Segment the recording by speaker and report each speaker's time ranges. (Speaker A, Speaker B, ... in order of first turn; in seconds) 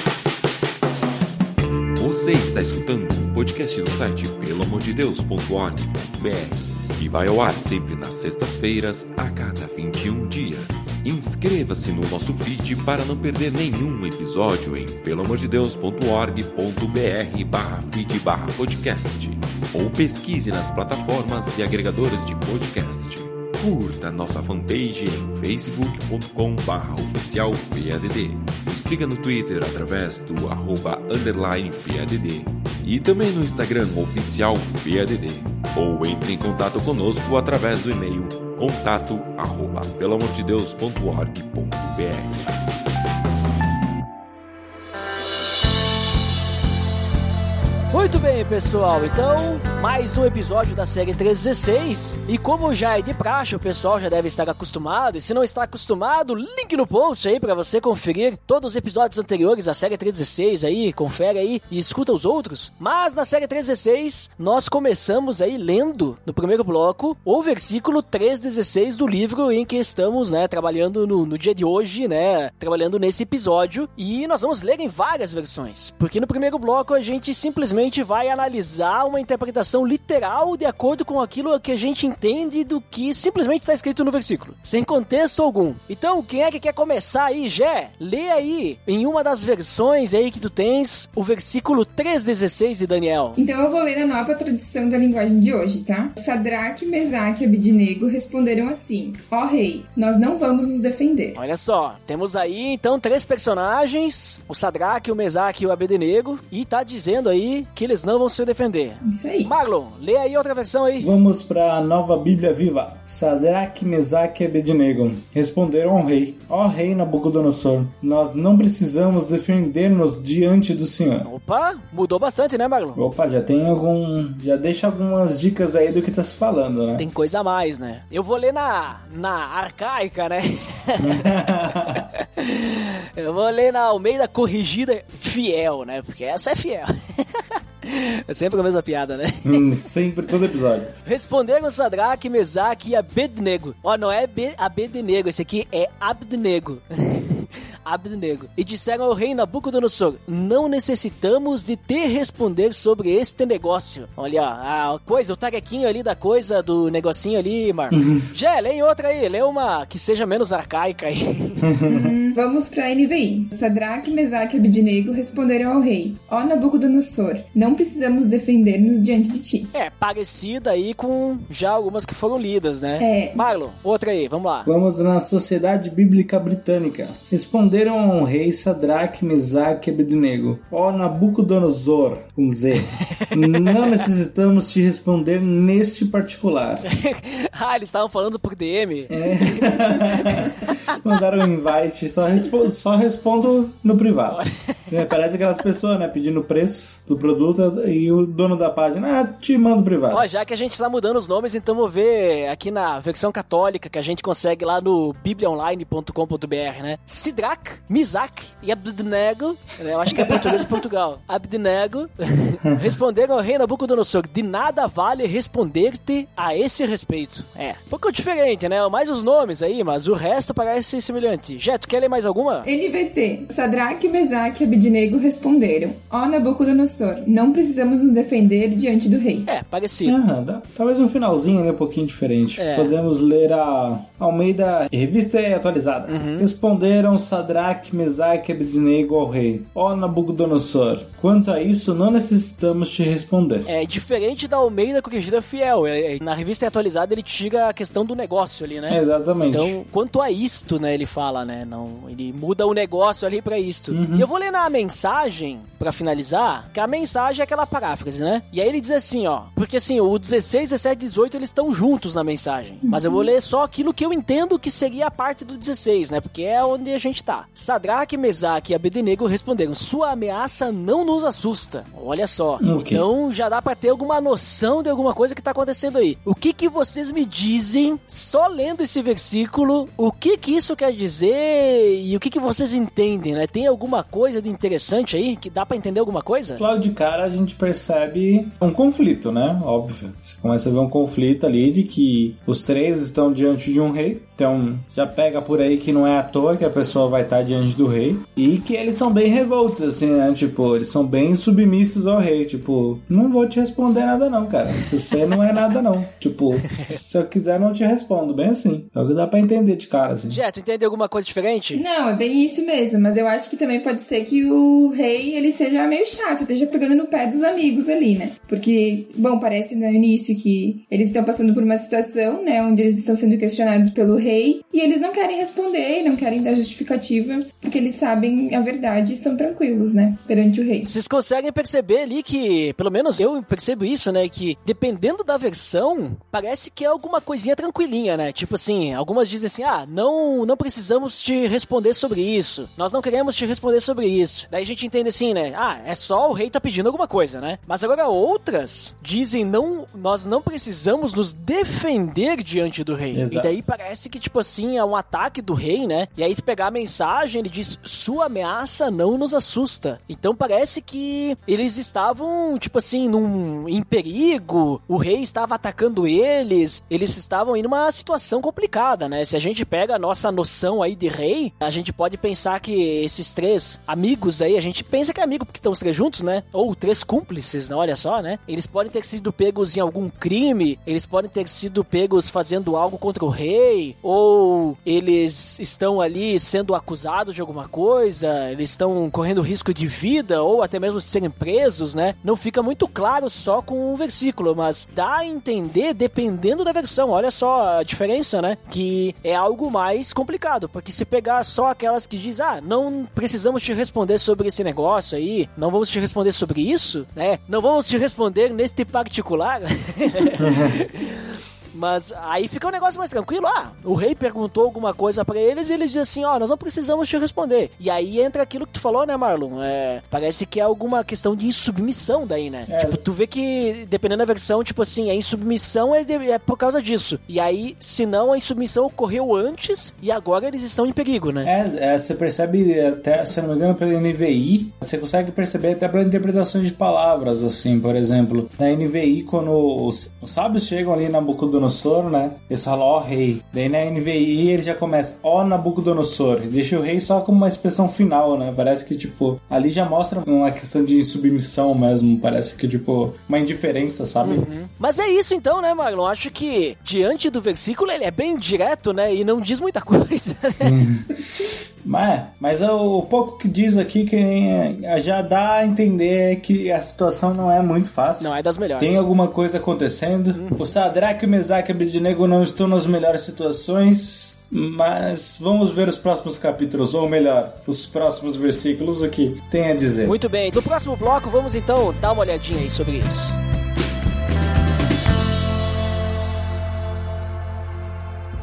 Speaker A: 1.9-42.6
Speaker B: 47.9-93.4, 101.3-111.1, 121.2-123.0, 127.0-139.7, 141.0-161.7, 169.7-174.7, 183.2-183.9, 186.8-190.9, 194.3-194.8, 200.1-222.7, 229.5-230.2, 232.6-232.9, 236.1-236.5, 243.7-286.6, 310.3-311.8, 330.8-431.5, 454.2-460.8, 468.2-469.0, 470.4-470.7, 480.0-483.4
Speaker C: 93.3-101.4, 109.0-109.5, 161.9-169.7, 173.0-173.4, 222.6-229.5, 311.7-330.9
Speaker D: 111.0-121.3, 123.0-127.0, 131.0-132.1, 139.4-140.9, 161.7-162.1, 174.6-186.9, 189.1-200.2, 210.1-210.8, 230.1-243.7, 248.9-249.8, 253.9-254.3, 272.6-273.1, 286.6-310.4, 353.1-353.6, 422.7-423.0, 431.4-454.5, 460.6-480.2